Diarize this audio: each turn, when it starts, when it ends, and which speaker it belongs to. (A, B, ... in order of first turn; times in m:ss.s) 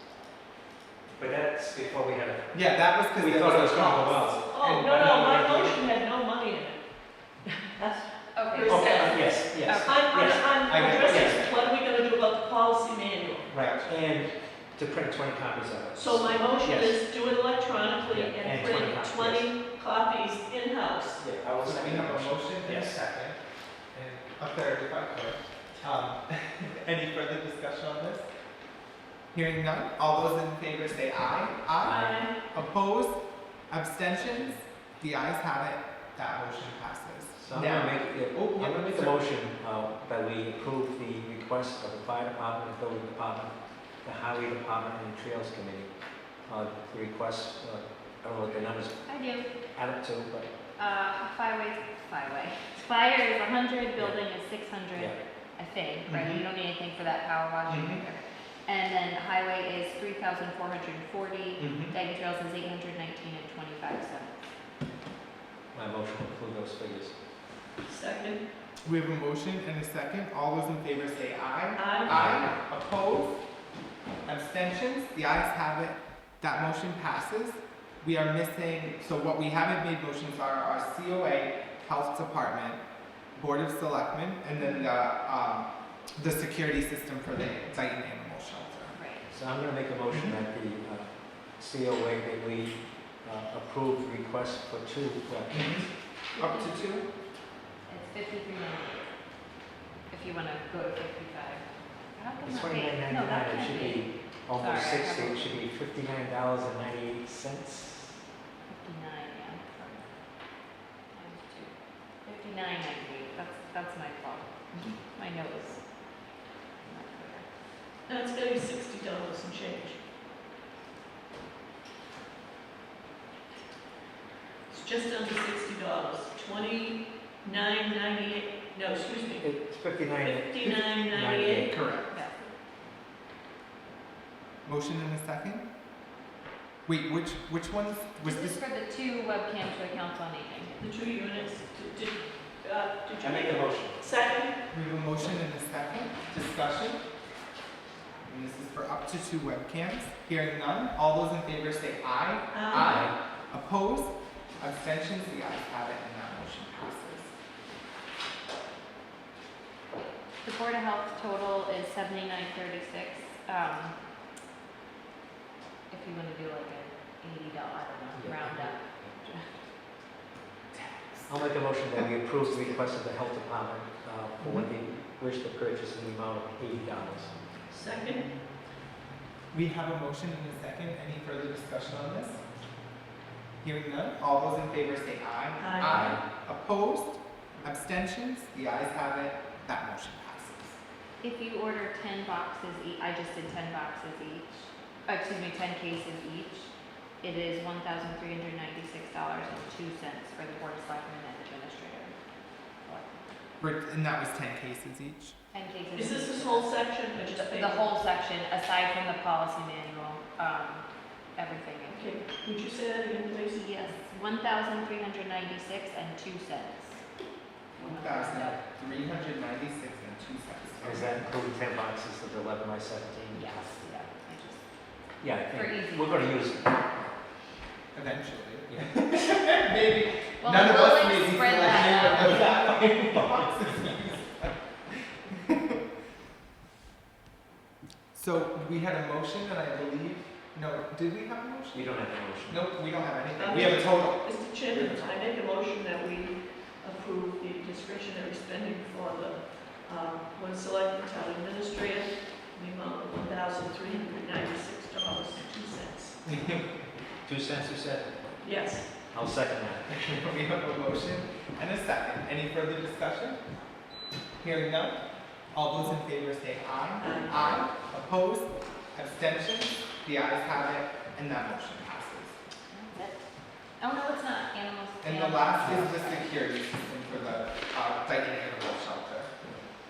0:01.2-0:02.6 A
0:02.5-0:05.9 B
0:03.1-0:04.5 A
0:04.5-0:06.8 C
0:07.7-0:13.5 C
0:08.3-0:09.1 D
0:08.6-0:11.4 A
0:09.7-0:10.2 D
0:10.6-0:11.5 B
0:13.5-0:14.0 B
0:13.8-0:17.0 A
0:15.9-0:21.2 C
0:18.1-0:19.5 A
0:21.2-0:23.3 A
0:21.6-0:23.2 B
0:23.9-0:28.3 B
0:29.3-0:39.2 B
0:31.8-0:32.3 C
0:31.8-0:32.2 A
0:37.3-0:45.9 A
0:46.5-0:49.1 A
0:49.0-0:49.6 D
0:49.7-0:50.5 A
0:50.8-1:04.3 D
0:56.1-0:56.5 B
0:57.7-0:58.0 B
1:01.6-1:01.9 B
1:05.7-1:07.1 A
1:07.8-1:08.4 C
1:08.8-1:13.4 B
1:11.8-1:12.2 C
1:14.2-1:22.8 B
1:23.4-1:29.0 B
1:24.5-1:24.9 D
1:28.9-1:29.3 D
1:29.3-1:35.8 A
1:35.5-1:35.8 B
1:36.4-1:36.9 D
1:36.4-1:37.1 B
1:37.8-1:39.1 D
1:40.1-1:45.6 D
1:42.4-1:48.2 A
1:48.7-1:50.6 D
1:51.1-1:57.4 D
1:58.0-2:00.0 C
2:04.7-2:09.6 C
2:09.4-2:10.6 A
2:10.1-2:11.8 C
2:10.6-2:11.0 B
2:11.1-2:11.7 A
2:11.7-2:12.2 B
2:14.6-2:15.6 B
2:16.8-2:18.6 B
2:18.2-2:20.8 D
2:20.8-2:24.6 C
2:23.2-2:24.0 A
2:24.7-2:27.0 B
2:28.2-2:37.3 B
2:32.5-2:33.1 C
2:32.8-2:33.1 A
2:40.4-2:44.0 D
2:45.9-2:49.5 D
2:48.1-2:49.1 A
2:50.7-2:52.8 B
2:51.3-2:57.3 A
2:57.7-2:58.3 C
2:59.5-3:02.4 B
3:03.6-3:10.8 B
3:05.6-3:06.2 C
3:11.2-3:14.5 D
3:15.0-3:22.2 D
3:22.8-3:23.3 D
3:23.6-3:25.4 B
3:25.5-3:26.8 D
3:25.9-3:27.9 C
3:27.3-3:32.0 D
3:31.9-3:33.7 C
3:33.6-3:37.0 D
3:37.8-3:41.2 B
3:37.8-3:38.6 D
3:40.8-3:43.8 A
3:43.3-3:44.6 D
3:45.2-3:47.0 A
3:45.5-3:46.2 D
3:47.9-3:55.4 B
3:48.7-3:49.0 A
3:50.4-3:52.5 D
3:58.1-4:05.1 B
4:01.7-4:02.7 A
4:03.4-4:16.2 C
4:16.2-4:16.7 B
4:17.2-4:18.1 A
4:18.4-4:19.0 C
4:19.0-4:20.2 A
4:19.9-4:23.4 B
4:24.4-4:25.0 B
4:25.5-4:32.4 B
4:27.0-4:27.5 C
4:32.7-4:33.2 D
4:33.8-4:36.3 D
4:35.0-4:39.4 B